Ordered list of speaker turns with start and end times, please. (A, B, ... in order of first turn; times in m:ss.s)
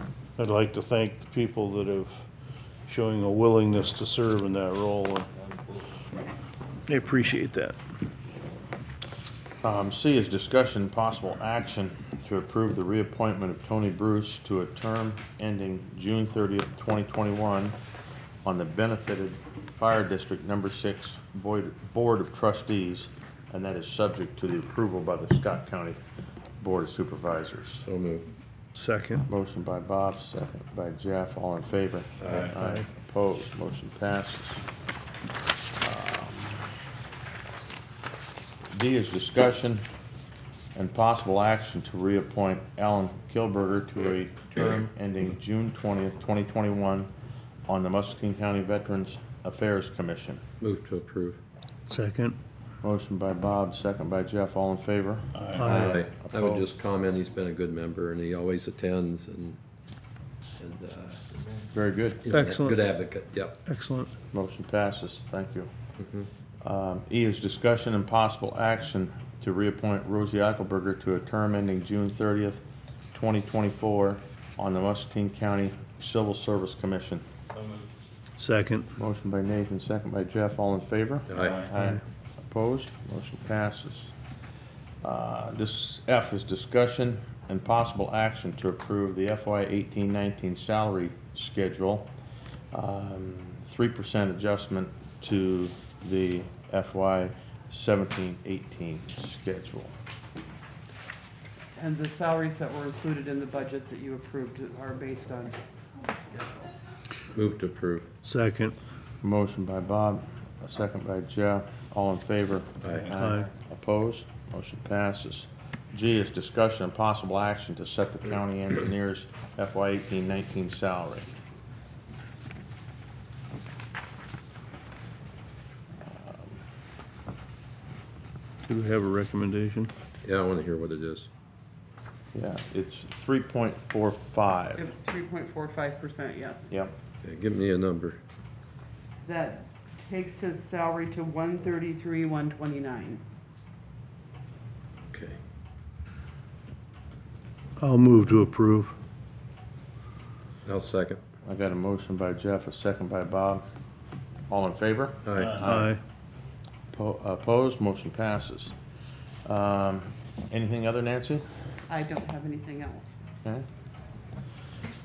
0:00.4-0:02.2 A
0:02.8-0:05.3 A
0:06.9-0:07.8 A
0:09.6-0:17.8 B
0:18.4-0:26.0 B
0:26.6-0:27.8 B
0:27.8-0:28.3 C
0:28.7-0:29.3 A
0:29.3-0:34.6 B
0:32.2-0:32.5 C
0:32.6-0:32.8 A
0:35.8-0:36.7 B
0:38.7-0:39.8 B
0:40.7-0:47.1 B
0:47.7-0:50.4 B
0:50.6-0:51.4 C
0:51.9-0:52.4 A
0:52.8-0:56.6 B
0:55.5-0:56.0 A
0:55.7-0:59.6 C
1:00.6-1:01.4 C
1:01.7-1:02.2 B
1:02.2-1:03.6 C
1:02.3-1:02.8 A
1:03.6-1:04.1 A
1:04.3-1:05.7 B
1:06.0-1:06.3 C
1:06.6-1:17.2 B
1:18.4-1:18.9 A
1:19.0-1:24.1 B
1:21.3-1:21.7 C
1:25.0-1:32.1 B
1:32.7-1:39.9 B
1:41.8-1:46.7 D
1:47.3-1:48.1 C
1:48.2-1:48.7 A
1:49.2-2:01.3 B
1:52.8-1:53.1 C
1:53.1-1:53.4 A
2:06.2-2:06.5 B
2:08.6-2:09.9 A
2:10.2-2:11.3 C
2:12.3-2:14.8 B
2:14.8-2:16.7 D
2:17.2-2:18.2 C
2:19.2-2:23.2 D
2:25.1-2:25.4 C
2:27.8-2:29.0 A
2:30.6-2:31.2 C
2:31.4-2:33.6 B
2:34.5-2:35.9 B
2:35.2-2:35.7 C
2:35.6-2:36.0 A
2:36.9-2:38.7 B
2:39.4-2:41.4 B
2:41.9-2:43.2 D